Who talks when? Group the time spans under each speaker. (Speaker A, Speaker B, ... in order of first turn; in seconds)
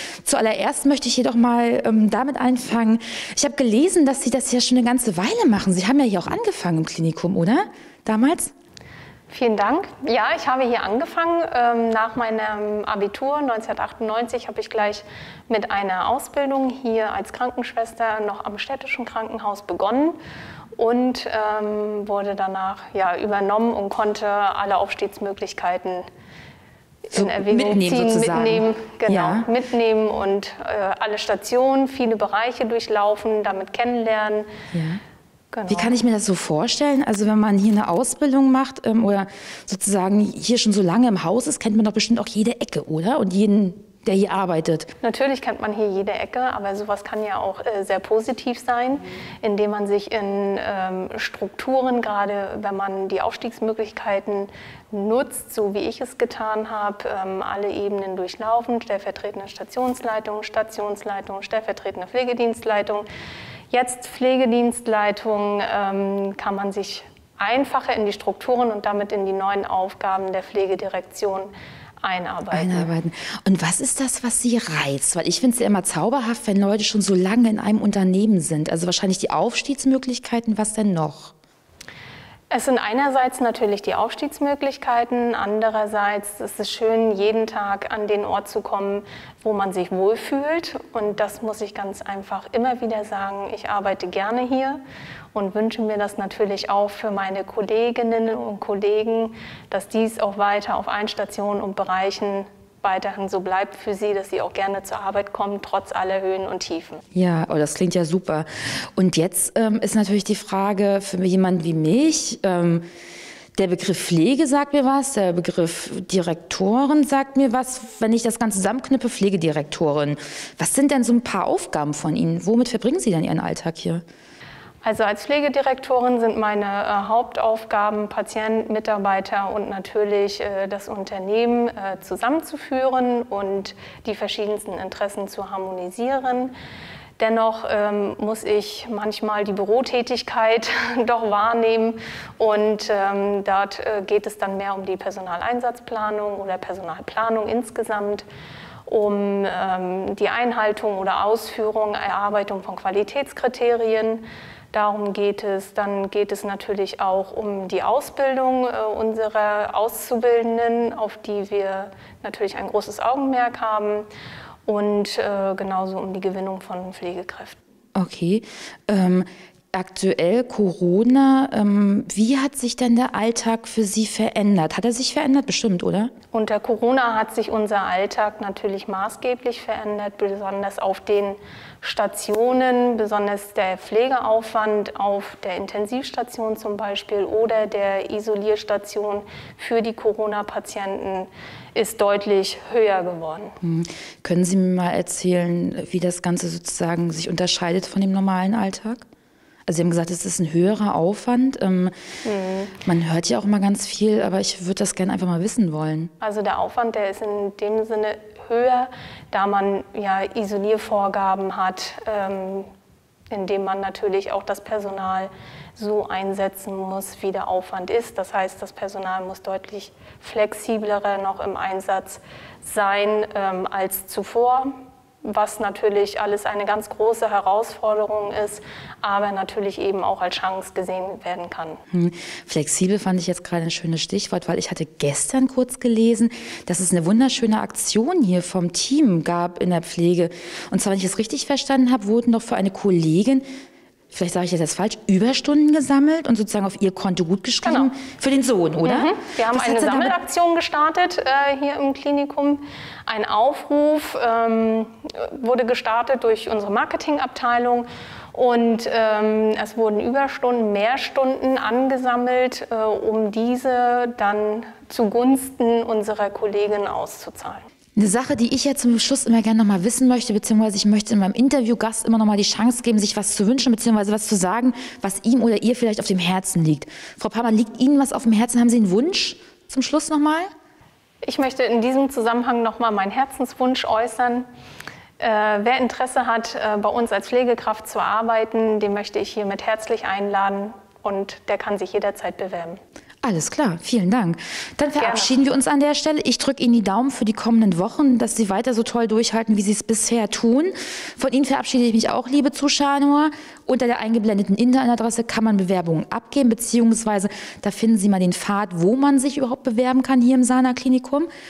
Speaker A: 0.2-8.5, 27.1-29.5, 34.7-35.0, 35.7-44.9, 72.5-81.3, 107.2-112.8, 113.6-124.0, 167.9-176.1, 193.6-199.0, 199.7-201.9, 202.8-206.1, 231.9-243.4, 244.1-250.1, 268.0-280.5, 293.2-311.3
Speaker B: 9.3-20.2, 20.8-26.1, 27.1-34.5, 35.5-36.0, 45.0-63.1, 63.7-71.5, 72.0-72.9, 82.5-94.8, 95.3-107.0, 124.8-136.5, 137.2-148.3, 148.9-164.1, 164.7-167.6, 176.3-193.6, 202.2-202.7, 206.2-212.7, 213.3-224.7, 225.2-231.8, 247.6-247.9, 248.8-267.6, 281.2-284.5, 285.2-292.8, 295.0-295.4